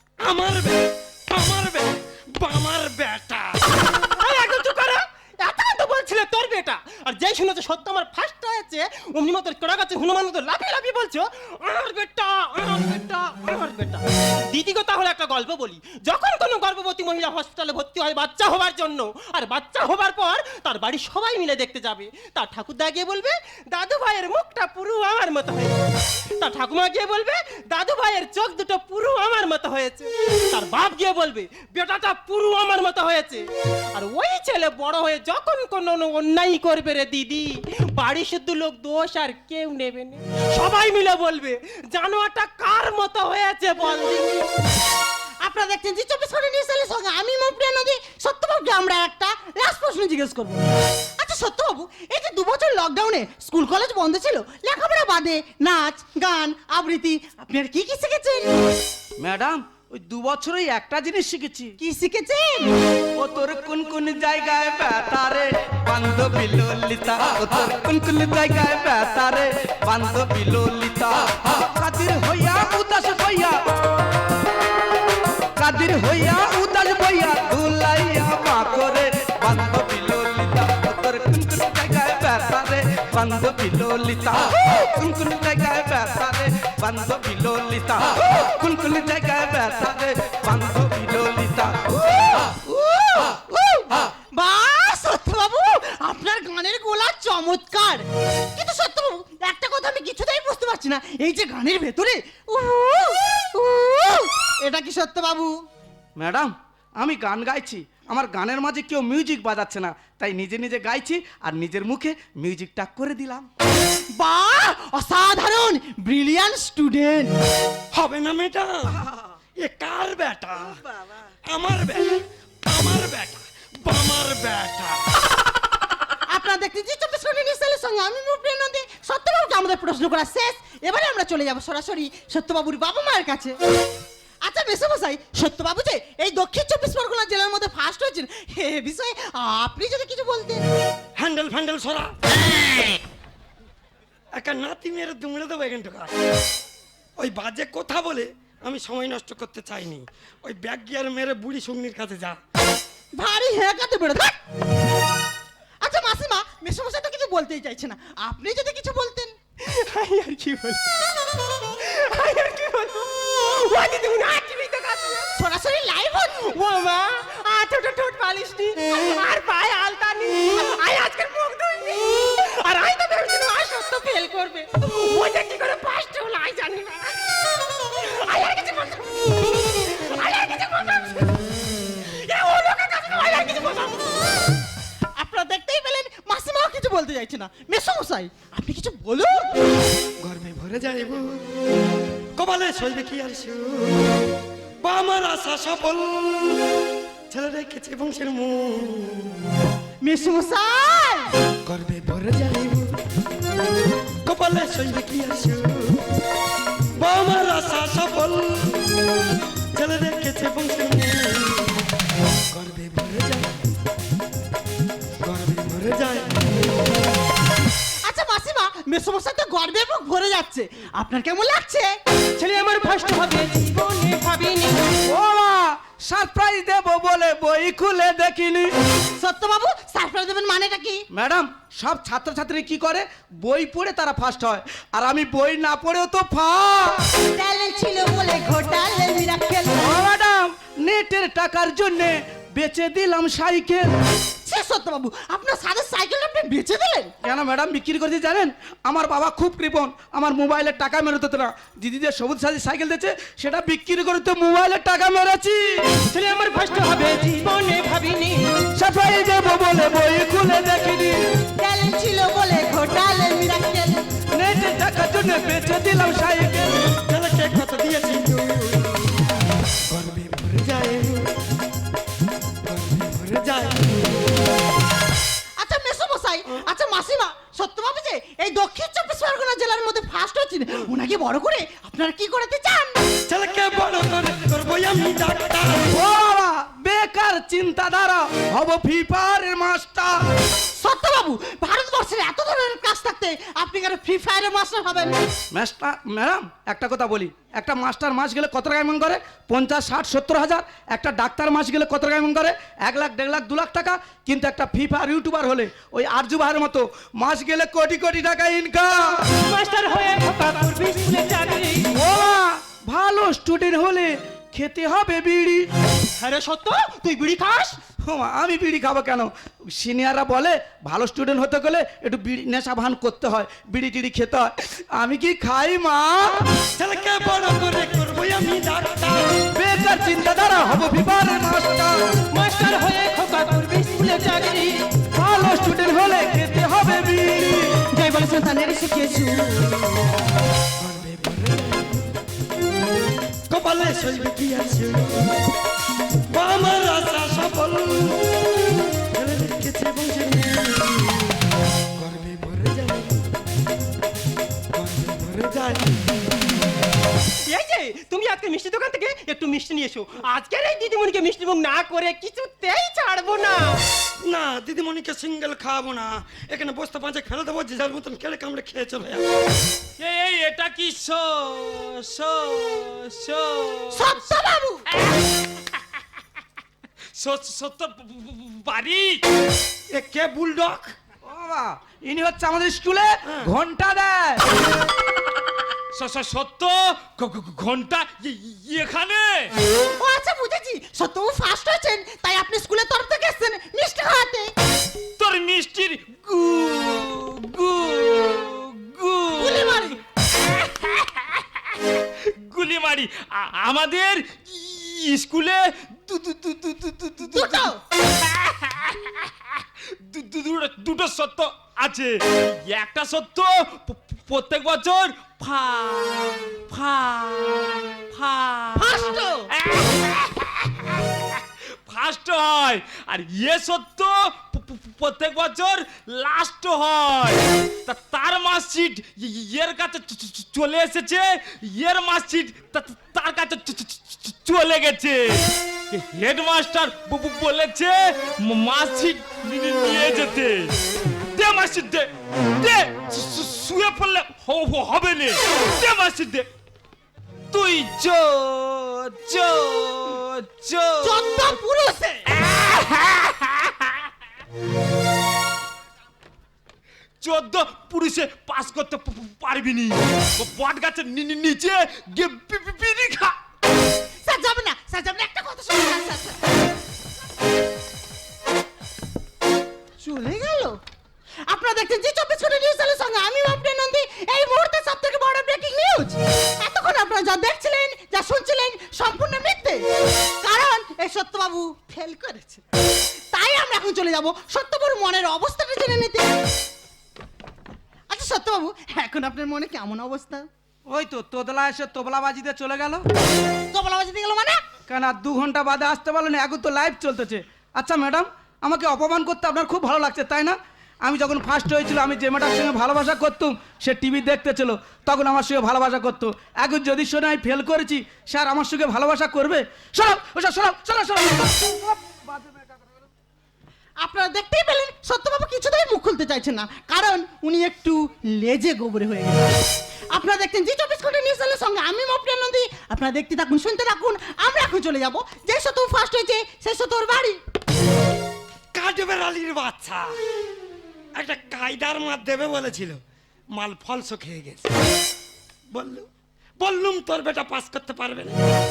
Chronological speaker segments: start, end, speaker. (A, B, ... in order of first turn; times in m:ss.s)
0:00.2-0:03.6 A
0:04.2-0:25.8 B
0:26.4-0:44.4 B
0:45.4-0:50.6 C
0:51.2-0:58.6 C
0:59.2-1:01.8 D
1:01.8-1:02.8 C
1:03.2-1:13.6 D
1:15.6-1:33.7 D
1:34.4-1:38.0 C
1:38.6-1:45.5 C
1:46.2-1:53.5 D
1:54.2-1:57.3 C
1:57.9-1:59.0 A
1:59.6-2:00.8 A
2:00.9-2:01.2 D
2:01.5-2:05.0 A
2:06.3-2:13.6 C
2:14.4-2:20.7 C
2:21.2-2:22.1 A
2:24.4-2:26.1 A
2:27.2-2:32.4 A
2:33.2-2:34.4 C
2:35.8-2:39.3 C
2:39.6-2:41.0 B
2:41.6-2:45.3 B
2:45.4-2:46.5 C
2:46.4-3:04.2 B
3:05.2-3:09.6 C
3:10.2-3:11.6 A
3:12.4-3:14.2 A
3:14.8-3:16.8 A
3:17.3-3:19.4 A
3:20.0-3:21.3 C
3:21.7-3:23.0 A
3:24.3-3:26.0 A
3:27.0-3:28.9 A
3:29.7-3:31.8 A
3:32.5-3:33.6 A
3:35.2-3:36.5 A
3:38.1-3:41.9 C
3:42.4-3:44.8 B
3:45.1-3:48.7 D
3:49.2-3:51.0 C
3:51.1-3:57.1 D
3:57.3-3:59.8 C
3:59.8-4:03.9 D
4:04.4-4:07.1 C
4:07.2-4:16.0 D
4:16.0-4:18.5 B
4:18.8-4:21.3 D
4:21.6-4:24.0 C
4:24.4-4:26.9 D
4:27.0-4:29.1 A
4:29.9-4:31.3 A
4:32.6-4:34.1 A
4:35.6-4:43.0 C
4:43.3-4:45.9 A
4:45.9-4:50.2 D
4:50.8-4:55.1 C
4:55.5-5:09.3 D
5:09.3-5:11.9 B
5:11.9-5:15.7 D
5:16.2-5:17.8 B
5:18.0-5:26.5 D
5:26.8-5:29.5 A
5:29.5-5:32.1 D
5:32.3-5:34.8 B
5:35.1-5:37.9 D
5:37.9-5:39.8 C
5:40.8-5:42.1 A
5:43.5-5:45.4 A
5:46.3-5:48.3 A
5:49.1-5:51.3 A
5:52.0-5:53.2 A
5:54.7-5:56.0 A
5:57.5-6:03.8 B
6:04.2-6:09.3 A
6:10.0-6:14.2 E
6:13.9-6:14.8 C
6:14.9-6:15.3 E
6:17.2-6:19.2 E
6:19.9-6:20.9 A
6:21.2-6:24.6 D
6:23.2-6:23.5 A
6:25.9-6:29.5 E
6:30.0-6:34.5 C
6:35.2-6:41.4 E
6:39.4-6:40.0 C
6:42.2-7:20.7 E
6:47.3-6:47.8 C
6:58.8-6:59.5 C
7:21.3-7:26.5 E
7:27.5-7:31.6 E
7:31.0-7:32.3 C
7:32.3-7:33.9 E
7:37.2-7:43.4 E
7:44.2-7:46.5 C
7:50.0-7:50.8 C
7:51.5-7:59.8 C
8:00.4-8:02.6 C
8:03.3-8:06.3 C
8:08.1-8:10.5 C
8:10.9-8:13.0 D
8:13.7-8:14.6 C
8:14.9-8:32.7 D
8:34.0-8:39.6 C
8:40.1-8:47.4 C
8:48.8-8:50.2 A
8:51.2-8:53.0 A
8:53.5-8:54.7 A
8:55.7-8:56.1 A
8:56.6-8:58.4 A